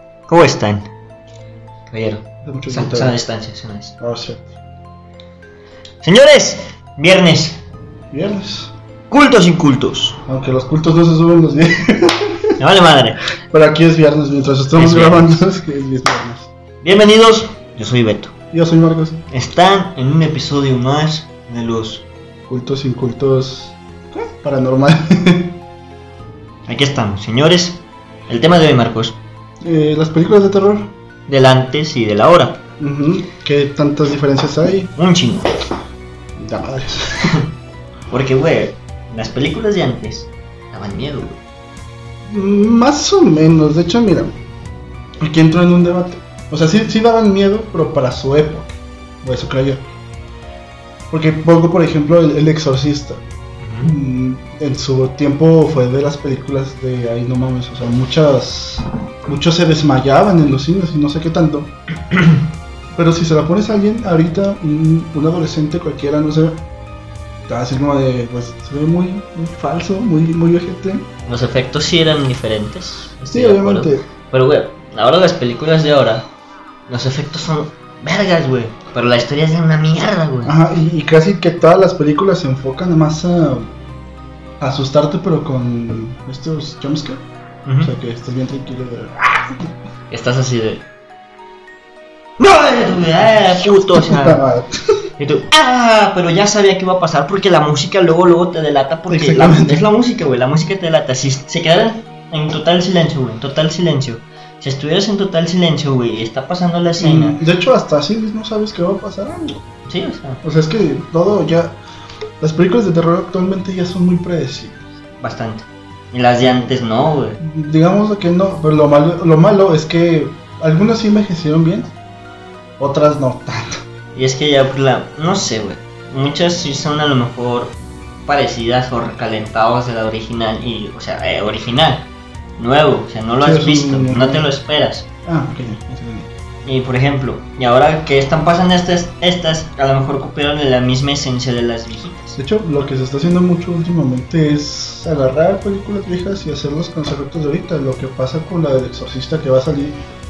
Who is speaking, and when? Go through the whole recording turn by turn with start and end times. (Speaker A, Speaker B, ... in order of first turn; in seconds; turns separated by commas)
Speaker A: 0.3-0.9, Speaker A: 1.9-3.9, Speaker B: 2.4-3.2, Speaker B: 4.0-4.5, Speaker A: 6.0-7.6, Speaker B: 8.1-8.7, Speaker A: 9.1-10.2, Speaker B: 10.2-12.5, Speaker A: 12.6-13.2, Speaker B: 13.5-16.5, Speaker A: 14.7-15.4, Speaker A: 16.8-18.3, Speaker B: 18.5-19.2, Speaker A: 19.3-22.1, Speaker B: 22.5-25.6, Speaker A: 26.7-29.2, Speaker B: 29.6-30.9, Speaker A: 31.3-32.6, Speaker B: 32.8-34.9, Speaker A: 35.0-35.5, Speaker B: 36.4-37.4, Speaker A: 38.1-41.4, Speaker B: 42.3-44.3, Speaker B: 45.2-49.8, Speaker B: 51.1-53.2, Speaker A: 53.6-54.0, Speaker B: 53.8-61.7, Speaker B: 62.9-66.6, Speaker B: 67.5-71.1, Speaker A: 71.2-76.3, Speaker B: 73.3-74.0, Speaker A: 76.9-80.5, Speaker B: 80.4-83.7, Speaker B: 84.6-87.2, Speaker A: 87.6-87.9, Speaker B: 87.8-89.5, Speaker A: 90.1-90.8, Speaker A: 92.4-94.4, Speaker B: 93.2-94.8, Speaker A: 95.2-107.4, Speaker B: 99.1-99.9, Speaker B: 107.0-109.6, Speaker A: 109.9-110.4, Speaker B: 110.4-111.8, Speaker B: 112.4-114.9, Speaker A: 115.2-117.4, Speaker B: 116.4-116.7, Speaker B: 117.4-121.9, Speaker B: 122.8-123.8, Speaker A: 124.1-135.1, Speaker B: 133.4-134.5, Speaker B: 135.2-136.3, Speaker A: 136.6-142.4, Speaker B: 142.4-150.0